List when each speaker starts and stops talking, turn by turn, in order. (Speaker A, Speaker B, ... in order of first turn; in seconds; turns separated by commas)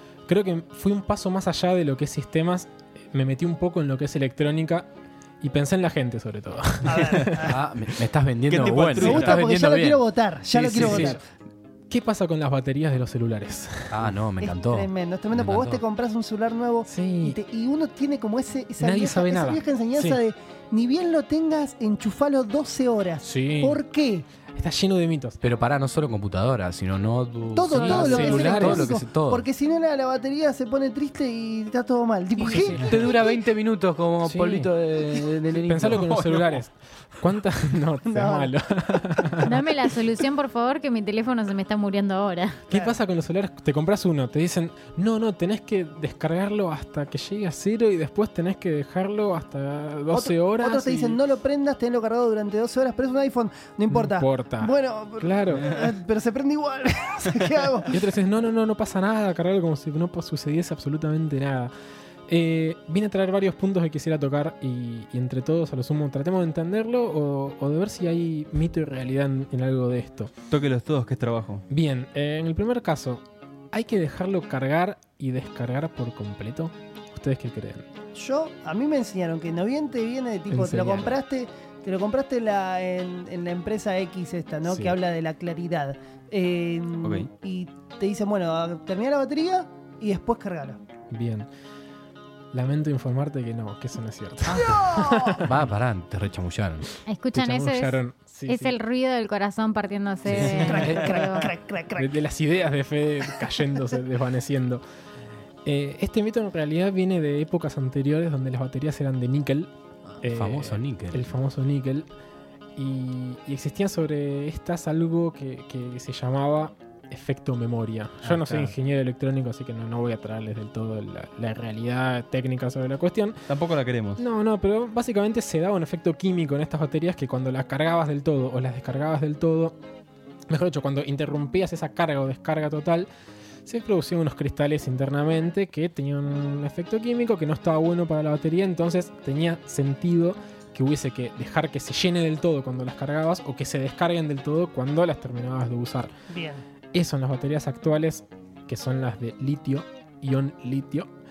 Speaker A: 0.3-4.9, Speaker A: 5.4-7.5, Speaker B: 6.8-7.6, Speaker C: 7.4-10.0, Speaker D: 8.5-9.4, Speaker B: 8.7-11.2, Speaker D: 10.6-11.1, Speaker A: 10.7-11.2, Speaker C: 10.8-11.1, Speaker A: 11.9-14.1, Speaker C: 13.9-15.8, Speaker B: 14.4-24.3, Speaker A: 16.9-17.4, Speaker A: 18.8-20.2, Speaker A: 23.2-23.8, Speaker A: 24.5-25.4, Speaker C: 25.4-29.5, Speaker B: 27.5-32.8, Speaker A: 27.7-29.0, Speaker A: 32.4-33.2, Speaker C: 32.5-36.2, Speaker A: 34.2-34.7, Speaker A: 35.5-39.7, Speaker D: 35.9-36.6, Speaker B: 38.1-39.4, Speaker E: 39.4-42.7, Speaker A: 42.7-51.2, Speaker B: 50.1-57.9, Speaker A: 53.9-55.9, Speaker A: 57.9-61.7, Speaker A: 62.3-70.3, Speaker D: 70.5-71.7, Speaker A: 71.7-77.9, Speaker B: 78.2-90.8, Speaker A: 80.5-81.2, Speaker A: 84.7-85.0, Speaker A: 91.1-91.5, Speaker A: 92.5-95.7, Speaker B: 94.5-95.4, Speaker C: 95.4-96.9, Speaker E: 97.1-101.5, Speaker A: 97.3-98.8, Speaker C: 100.3-100.8, Speaker A: 100.3-101.0, Speaker B: 100.4-102.1, Speaker A: 102.0-104.8, Speaker A: 105.7-112.1, Speaker C: 110.2-111.3, Speaker A: 112.8-123.5, Speaker D: 118.3-118.7, Speaker D: 123.5-124.2, Speaker A: 124.2-129.8, Speaker A: 130.5-133.1, Speaker A: 133.7-146.1, Speaker B: 146.3-146.7, Speaker A: 146.9-151.1